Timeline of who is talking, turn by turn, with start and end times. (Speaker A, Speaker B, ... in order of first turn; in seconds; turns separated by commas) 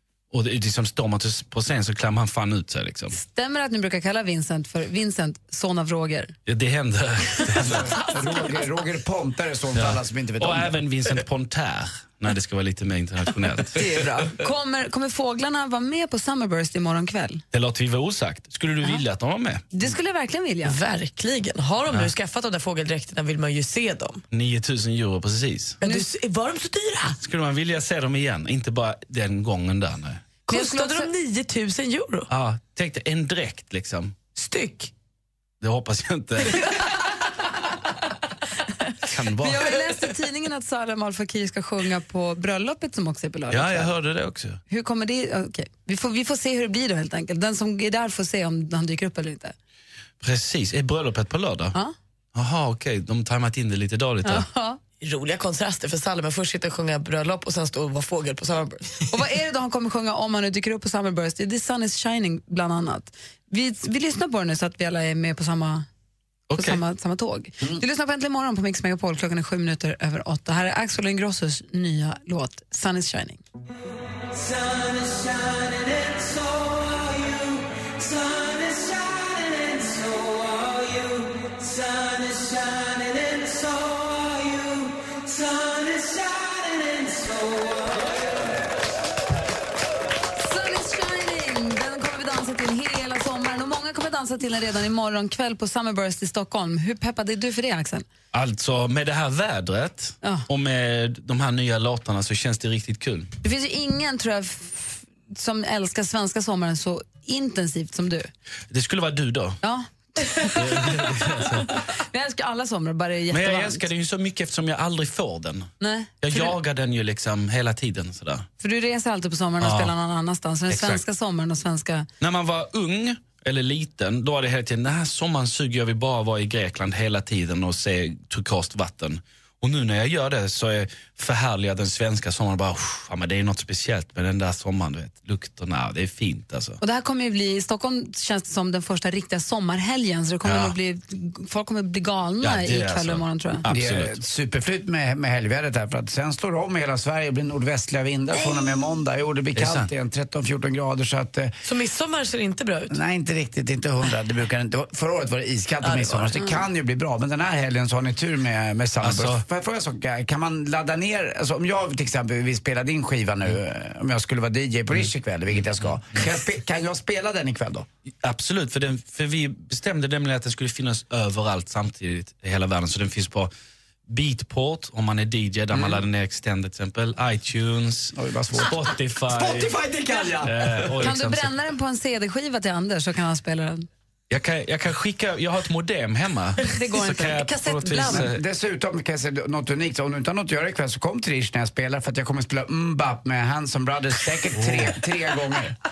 Speaker A: 0.3-3.2, Speaker B: 3.1-6.3, Speaker A: 6.5-8.0, Speaker C: 7.5-10.8, Speaker A: 9.7-13.8, Speaker B: 13.8-17.4, Speaker A: 17.5-19.6, Speaker B: 19.7-20.8, Speaker D: 20.6-24.2, Speaker A: 24.3-25.8, Speaker D: 25.8-27.2, Speaker A: 27.2-30.3, Speaker B: 30.5-31.1, Speaker D: 30.5-32.3, Speaker A: 32.3-34.1, Speaker D: 34.4-34.9, Speaker A: 35.6-36.8, Speaker A: 39.1-39.7, Speaker B: 39.4-43.9, Speaker A: 43.5-44.6, Speaker B: 44.7-49.5, Speaker A: 50.2-51.8, Speaker A: 52.4-54.5, Speaker B: 54.2-54.8, Speaker D: 55.0-59.0, Speaker B: 59.1-65.9, Speaker A: 66.5-66.8, Speaker B: 66.6-73.4, Speaker B: 90.4-98.1, Speaker A: 98.3-103.3, Speaker B: 103.4-108.3, Speaker A: 108.7-109.6, Speaker B: 109.6-113.8, Speaker A: 110.5-111.8, Speaker A: 113.3-115.7, Speaker B: 115.8-116.5, Speaker A: 116.2-118.5, Speaker B: 118.6-122.1, Speaker A: 119.6-119.9, Speaker A: 120.7-121.0, Speaker A: 122.2-136.8, Speaker B: 136.8-143.6, Speaker A: 140.4-140.8, Speaker A: 142.4-144.2, Speaker C: 143.7-151.6, Speaker D: 148.4-148.7, Speaker A: 149.6-149.9, Speaker D: 151.6-153.0, Speaker C: 152.9-167.9, Speaker D: 155.8-156.5, Speaker A: 159.0-159.4, Speaker A: 168.2-173.5, Speaker A: 174.1-179.8, Speaker C: 175.7-176.0, Speaker C: 178.1-181.1, Speaker A: 180.4-181.6, Speaker B: 181.0-183.9, Speaker A: 184.3-188.4, Speaker B: 186.7-188.1, Speaker C: 188.0-195.8, Speaker A: 194.5-194.9